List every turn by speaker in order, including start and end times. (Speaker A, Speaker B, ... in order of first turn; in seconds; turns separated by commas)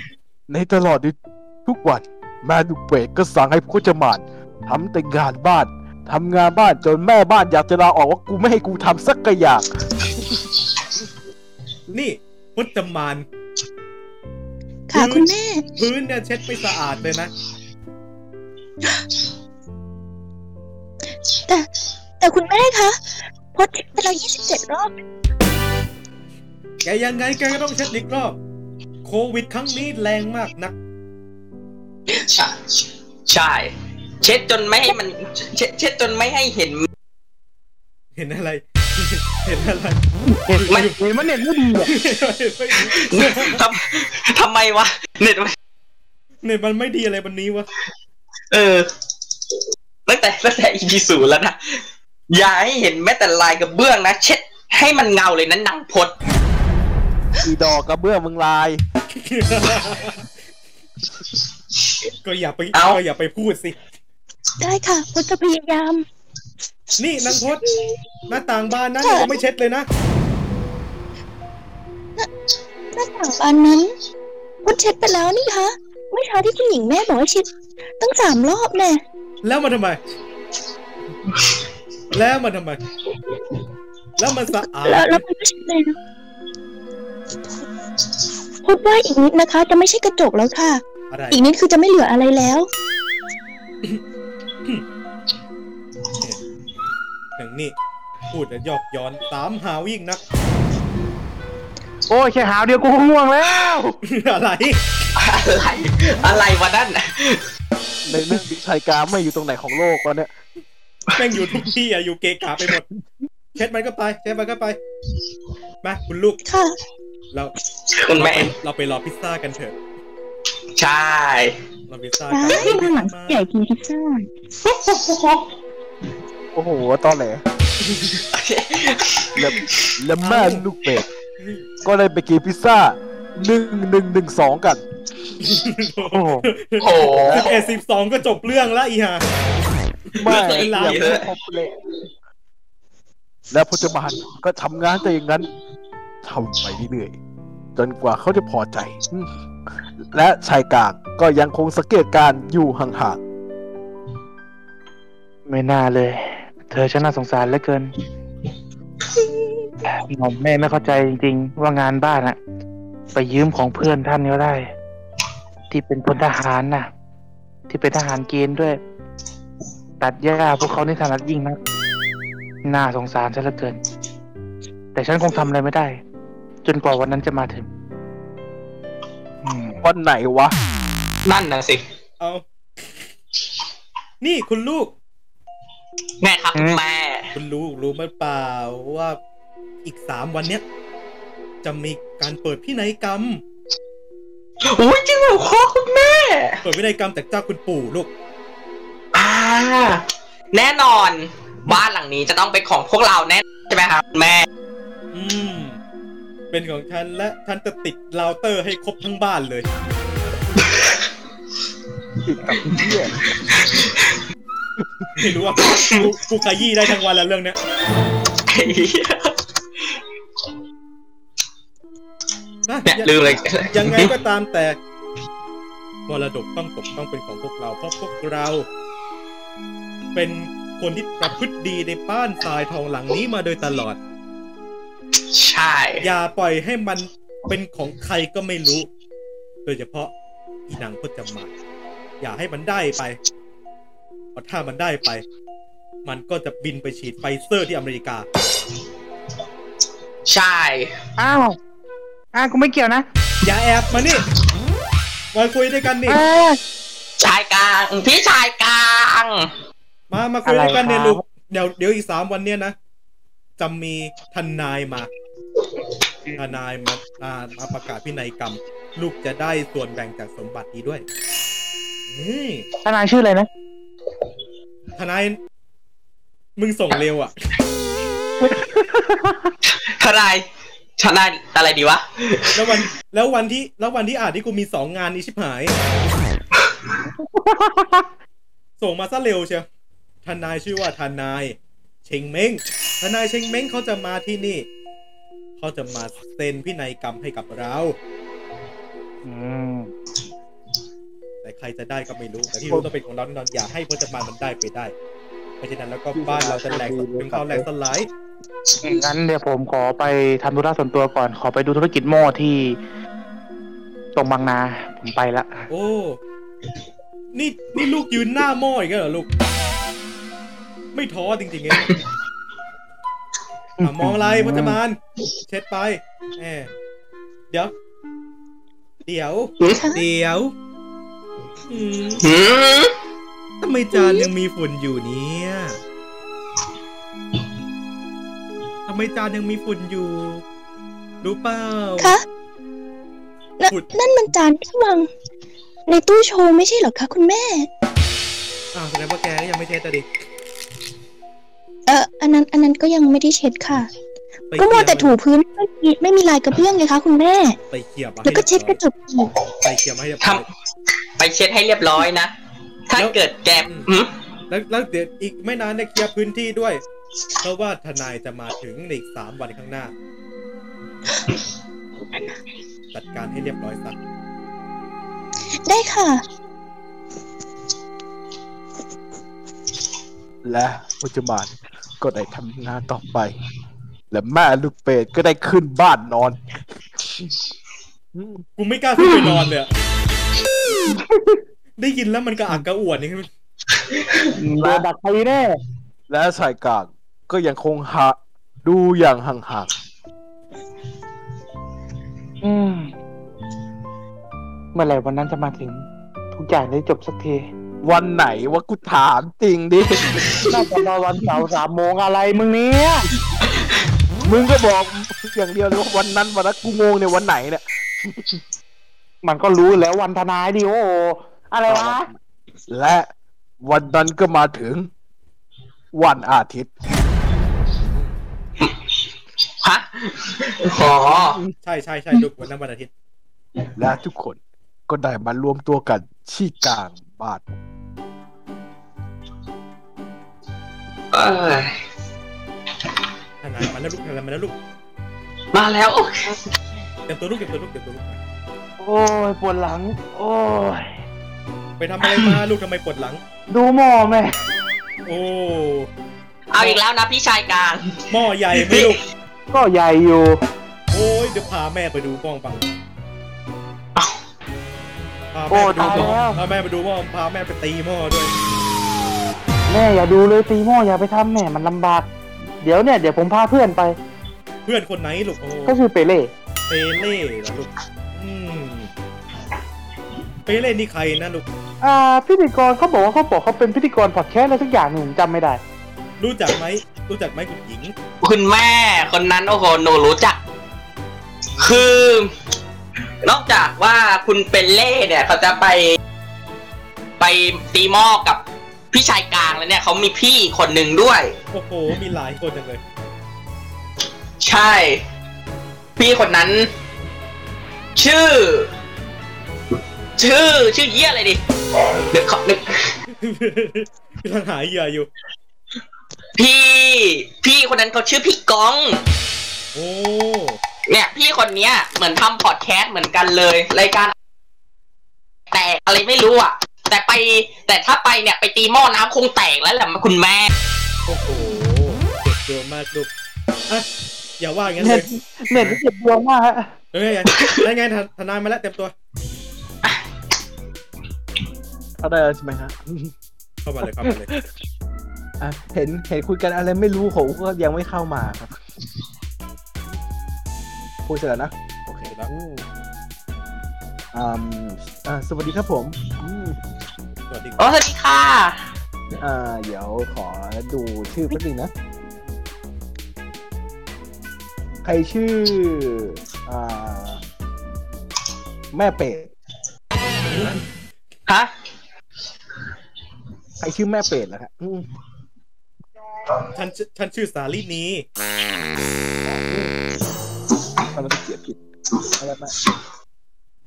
Speaker A: 0.5-9.7, Speaker B: 11.9-13.3, Speaker C: 14.9-15.7, Speaker B: 14.9-17.3, Speaker C: 22.2-23.0, Speaker C: 23.5-24.9, Speaker B: 26.8-28.4, Speaker B: 29.0-30.7, Speaker D: 32.1-36.9, Speaker B: 38.1-40.0, Speaker E: 40.3-41.9, Speaker B: 40.6-41.0, Speaker B: 41.9-43.6, Speaker D: 42.8-45.6, Speaker B: 46.4-47.7, Speaker D: 48.5-48.9, Speaker D: 50.1-56.1, Speaker A: 57.4-58.8, Speaker B: 59.1-60.2, Speaker B: 62.2-63.8, Speaker D: 62.7-63.0, Speaker C: 64.6-66.0, Speaker B: 67.0-67.7, Speaker C: 67.7-68.0, Speaker B: 68.3-69.9, Speaker C: 69.0-69.4, Speaker C: 72.9-73.9, Speaker C: 74.6-77.5, Speaker C: 78.0-79.0, Speaker B: 79.4-80.0, Speaker B: 82.1-82.8, Speaker B: 84.2-85.2, Speaker C: 84.8-86.0, Speaker C: 88.6-92.7, Speaker B: 91.1-91.4, Speaker B: 97.4-97.8, Speaker B: 98.3-100.2, Speaker E: 102.1-104.0, Speaker B: 104.0-104.8, Speaker D: 105.2-107.5, Speaker A: 108.1-110.3, Speaker B: 111.1-112.8, Speaker B: 113.6-114.8, Speaker B: 115.8-116.4, Speaker C: 116.5-116.8, Speaker D: 118.0-118.5, Speaker B: 118.1-119.8, Speaker D: 120.8-121.6, Speaker B: 121.9-123.4, Speaker C: 122.3-124.3, Speaker D: 124.7-125.5, Speaker A: 126.5-127.4, Speaker B: 127.9-128.2, Speaker D: 128.3-129.9, Speaker A: 129.3-131.1, Speaker B: 130.2-130.7, Speaker B: 131.4-131.7, Speaker A: 131.8-134.8, Speaker B: 135.4-139.2, Speaker E: 136.1-136.4, Speaker D: 136.8-137.7, Speaker A: 140.2-141.7, Speaker D: 140.2-141.3, Speaker B: 140.4-141.2, Speaker A: 143.5-145.5, Speaker A: 146.2-147.1, Speaker A: 147.8-149.3, Speaker A: 150.1-153.2, Speaker E: 155.5-157.9, Speaker E: 160.0-162.4, Speaker E: 163.2-164.7, Speaker E: 165.7-166.9, Speaker E: 167.7-168.8, Speaker E: 170.0-171.6, Speaker E: 172.7-173.8, Speaker E: 174.9-175.9, Speaker E: 176.7-177.7, Speaker E: 179.4-179.8, Speaker A: 179.8-180.6, Speaker D: 181.3-181.8, Speaker B: 184.2-184.9, Speaker D: 186.2-187.3, Speaker B: 187.3-189.2, Speaker B: 189.8-190.6, Speaker B: 191.6-193.4, Speaker D: 194.6-196.6, Speaker B: 196.6-198.1, Speaker D: 199.1-204.5, Speaker B: 205.1-205.8, Speaker B: 206.5-209.7, Speaker A: 212.2-213.2, Speaker D: 213.6-214.1, Speaker A: 214.8-215.1, Speaker B: 215.2-217.6, Speaker D: 215.7-216.1, Speaker D: 218.5-219.4, Speaker B: 222.7-224.8, Speaker D: 222.8-224.1, Speaker B: 226.1-228.7, Speaker B: 230.2-234.0, Speaker D: 235.3-236.1, Speaker B: 236.0-238.9, Speaker B: 239.7-240.1, Speaker B: 240.7-241.5, Speaker B: 242.2-243.2, Speaker B: 244.3-245.2, Speaker B: 246.1-248.3, Speaker D: 250.3-250.9, Speaker E: 251.2-251.6, Speaker E: 252.3-253.0, Speaker B: 253.4-254.3, Speaker B: 255.3-256.2, Speaker E: 256.1-256.6, Speaker D: 257.2-259.5, Speaker B: 260.1-262.8, Speaker E: 260.4-261.2, Speaker B: 263.6-265.1, Speaker B: 266.4-271.1, Speaker B: 272.1-272.7, Speaker E: 272.9-273.5, Speaker B: 275.0-275.4, Speaker B: 276.6-277.3, Speaker E: 278.5-279.5, Speaker D: 279.7-280.4, Speaker D: 281.0-282.8, Speaker B: 282.5-285.8, Speaker E: 287.2-288.1, Speaker B: 288.8-289.7, Speaker B: 290.2-294.7, Speaker B: 295.6-298.0, Speaker E: 299.2-299.9, Speaker B: 301.4-304.9, Speaker B: 305.6-308.1, Speaker A: 306.1-307.7, Speaker E: 308.8-312.8, Speaker E: 314.2-315.6, Speaker B: 315.7-316.2, Speaker B: 317.3-319.3, Speaker B: 320.9-321.9, Speaker D: 321.7-322.0, Speaker E: 323.8-324.8, Speaker B: 323.8-326.7, Speaker B: 329.1-330.5, Speaker C: 329.8-330.0, Speaker B: 331.7-332.2, Speaker D: 332.2-332.9, Speaker B: 333.6-335.8, Speaker C: 333.9-334.3, Speaker B: 338.9-340.4, Speaker B: 341.2-342.1, Speaker C: 343.6-345.1, Speaker C: 345.9-347.7, Speaker B: 348.7-350.1, Speaker C: 351.9-353.9, Speaker B: 354.5-355.2, Speaker C: 354.6-357.6, Speaker B: 357.7-358.8, Speaker C: 358.2-359.4, Speaker B: 359.6-360.5, Speaker D: 361.2-362.3, Speaker D: 362.9-364.1, Speaker B: 362.9-363.9, Speaker B: 364.5-366.8, Speaker B: 367.4-369.9, Speaker B: 372.9-374.0, Speaker C: 375.7-376.2, Speaker A: 380.4-383.4, Speaker A: 384.1-386.4, Speaker A: 388.1-388.4, Speaker B: 388.6-389.7, Speaker E: 390.9-391.4, Speaker B: 391.8-393.3, Speaker D: 393.9-394.3, Speaker E: 394.4-395.6, Speaker A: 394.6-394.9, Speaker A: 396.1-399.7, Speaker E: 402.4-402.9, Speaker E: 404.7-407.4, Speaker A: 407.8-410.2, Speaker D: 410.1-410.5, Speaker E: 410.5-413.1, Speaker A: 414.2-418.4, Speaker E: 419.2-422.1, Speaker A: 421.7-422.2, Speaker A: 422.7-423.1, Speaker A: 423.6-424.9, Speaker A: 425.9-426.7, Speaker B: 427.8-428.1, Speaker D: 429.6-431.4, Speaker A: 431.1-431.5, Speaker B: 431.6-432.9, Speaker A: 433.8-437.4, Speaker D: 441.1-441.8, Speaker B: 443.4-444.6, Speaker D: 445.5-446.4, Speaker B: 447.1-448.2, Speaker E: 448.8-450.9, Speaker B: 451.8-453.2, Speaker D: 452.0-452.4, Speaker E: 453.5-454.3, Speaker B: 455.1-455.9, Speaker D: 456.5-459.0, Speaker B: 458.1-459.0, Speaker E: 459.5-460.4, Speaker B: 460.9-462.7, Speaker B: 465.3-468.3, Speaker E: 465.5-466.4, Speaker E: 469.7-472.1, Speaker E: 472.6-473.9, Speaker B: 474.7-475.8, Speaker E: 475.7-476.3, Speaker B: 476.7-478.9, Speaker B: 480.5-481.5, Speaker E: 481.8-485.6, Speaker B: 486.2-487.9, Speaker D: 488.2-490.4, Speaker B: 491.6-491.9, Speaker D: 491.6-492.3, Speaker D: 493.2-496.0, Speaker D: 497.2-501.4, Speaker B: 501.5-502.8, Speaker D: 504.4-505.0, Speaker D: 506.0-506.7, Speaker D: 508.0-508.7, Speaker D: 510.2-513.0, Speaker B: 513.2-515.1, Speaker D: 516.4-519.0, Speaker B: 519.7-520.6, Speaker D: 520.9-524.1, Speaker D: 525.5-530.5, Speaker B: 531.1-533.1, Speaker B: 534.4-535.8, Speaker E: 534.8-536.7, Speaker B: 536.9-538.9, Speaker A: 542.0-543.1, Speaker B: 543.6-544.3, Speaker A: 545.4-548.5, Speaker A: 551.1-552.6, Speaker A: 554.1-556.6, Speaker B: 557.2-557.7, Speaker D: 557.6-558.6, Speaker A: 559.2-561.7, Speaker A: 564.8-567.2, Speaker A: 568.7-569.3, Speaker B: 570.3-570.6, Speaker A: 573.6-574.9, Speaker B: 576.5-578.1, Speaker A: 579.3-579.7, Speaker A: 580.9-581.6, Speaker A: 582.2-582.5